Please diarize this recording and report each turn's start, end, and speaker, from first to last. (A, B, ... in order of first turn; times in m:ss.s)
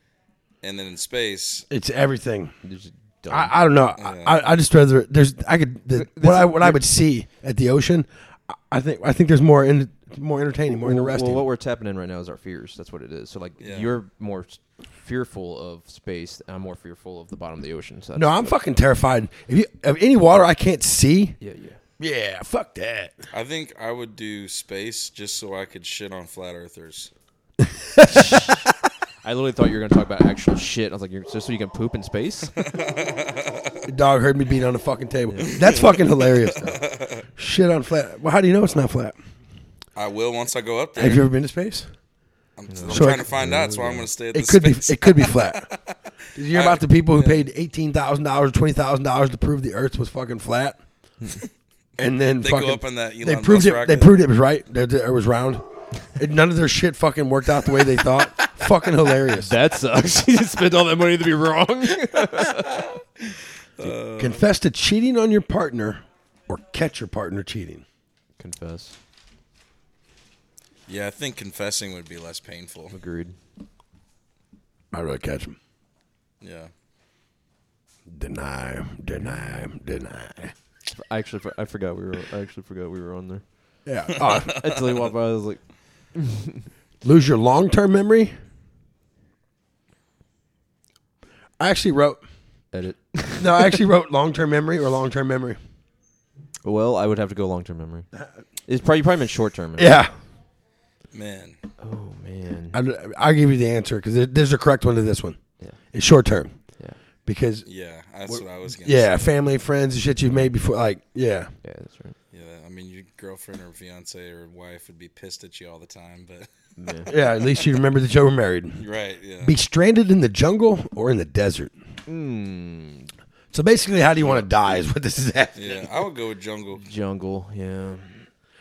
0:00.6-0:01.7 A
0:01.7-0:02.5 B
0:02.6-0:03.6 C
0:03.3-0:11.5 B
0:04.0-0:04.4 A
0:05.9-0:06.8 C
0:10.8-0:18.6 C
0:13.6-0:13.9 A
0:18.1-0:21.4 B
0:21.4-0:21.8 C
0:22.0-0:23.2 B
0:23.3-0:27.1 A
0:27.6-0:28.5 B
0:28.2-0:28.5 C
0:29.2-0:32.5 C
0:32.6-0:33.8 A
0:33.9-0:36.8 B
0:35.3-0:35.6 C
0:35.5-0:37.2 A
0:37.4-0:39.2 B
0:40.0-0:41.2 A
0:41.0-0:41.9 B
0:42.6-0:46.0 A
0:42.7-0:44.0 C
0:42.9-0:43.8 B
0:44.3-0:45.7 B
0:46.3-0:50.8 B
0:46.5-0:47.5 A
0:52.0-0:59.5 B
0:52.4-0:54.2 A
0:59.3-1:02.9 C
1:03.8-1:04.4 A
1:04.2-1:07.8 B
1:08.4-1:09.0 C
1:10.9-1:12.9 A
1:12.9-1:13.3 C
1:14.9-1:15.6 B
1:16.4-1:16.7 A
1:18.1-1:20.5 B
1:20.9-1:23.4 C
1:23.8-1:24.5 B
1:24.2-1:25.1 A
1:24.4-1:25.6 C
1:26.1-1:26.6 C
1:27.0-1:28.3 B
1:31.6-1:32.2 B
1:32.7-1:33.8 C
1:33.4-1:35.6 B
1:36.6-1:38.1 C
1:38.7-1:39.9 C
1:39.8-1:40.1 B
1:41.1-1:41.6 A
1:41.8-1:42.8 C
1:42.7-1:45.4 B
1:45.9-1:46.5 B
1:47.2-1:47.6 B
1:47.6-1:49.3 A
1:48.3-1:51.5 B
1:50.2-1:50.5 C
1:51.6-1:52.2 C
1:52.3-1:56.5 A
1:56.8-1:57.1 C
1:57.1-1:57.3 A
1:57.1-1:58.8 B
1:58.8-1:59.5 A
1:59.4-2:01.7 B
2:02.1-2:03.1 C
2:03.5-2:05.8 B
2:05.5-2:06.8 A
2:06.8-2:08.2 C